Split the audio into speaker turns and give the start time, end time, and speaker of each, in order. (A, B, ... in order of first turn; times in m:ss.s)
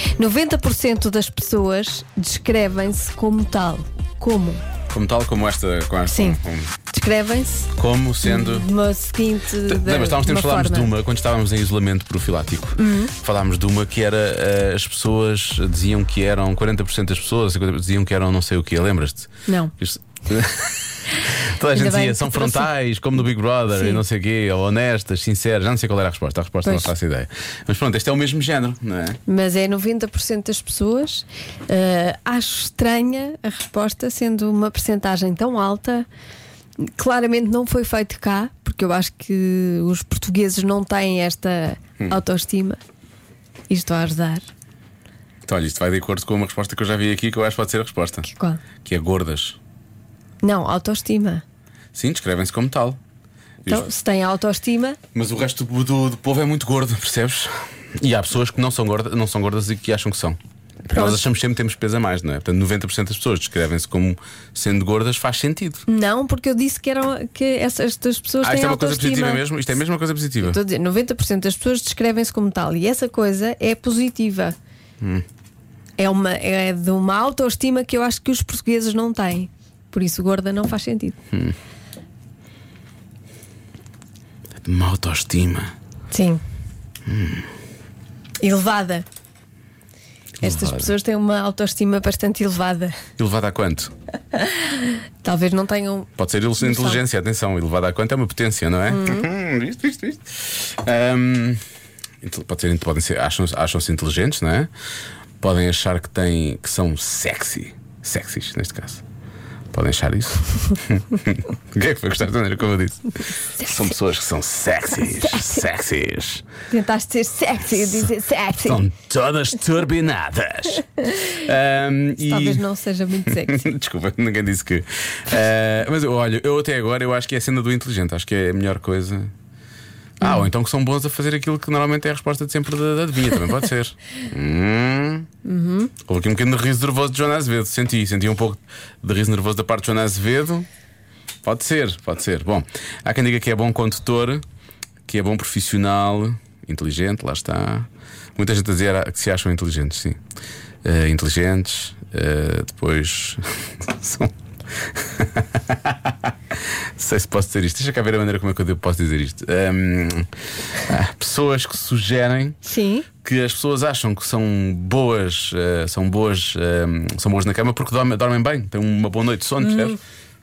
0:00.2-0:04.6 A
0:04.9-0:06.7 B
0:06.1-0:06.4 A
0:06.9-0:07.7 A
0:07.8-0:08.7 B
0:08.2-0:10.9 A
0:09.6-0:29.2 B
0:12.8-0:13.1 A
0:19.5-0:19.7 A
0:21.7-0:22.7 A
0:23.7-0:24.0 A
0:26.6-0:26.9 A
0:29.3-0:36.1 A
0:36.8-0:42.8 A
0:43.7-0:44.4 A
0:45.4-0:48.2 B
0:48.2-0:48.6 A
0:48.8-0:49.6 B
0:50.4-0:51.4 A
0:51.9-0:53.0 B
0:53.7-0:55.0 A
0:55.1-1:00.4 B
1:00.9-1:05.8 B
1:00.9-1:01.2 A
1:05.9-1:09.4 A
1:08.4-1:10.6 B
1:10.4-1:14.5 A
1:16.0-1:21.2 A
1:24.6-1:25.7 B
1:26.1-1:26.4 A
1:27.1-1:27.5 B
1:28.4-1:29.0 A
1:30.4-1:30.9 B
1:30.4-1:33.0 A
1:33.2-1:33.9 B
1:34.3-1:37.0 A
1:36.2-1:41.6 B
1:38.9-1:39.3 A
1:42.2-1:44.7 B
1:45.4-1:49.0 B
1:49.7-1:56.4 B
1:55.2-1:55.6 A
1:56.7-1:58.8 A
1:58.6-2:02.6 B
2:02.2-2:03.7 A
2:03.5-2:09.3 B
2:10.2-2:15.3 B
2:10.2-2:10.5 A
2:15.4-2:15.9 A
2:16.1-2:20.7 B
2:21.4-2:24.4 B
2:25.1-2:30.2 B
2:30.8-2:42.6 B
2:42.6-2:43.1 A
2:43.2-2:50.0 B
2:49.6-2:50.0 A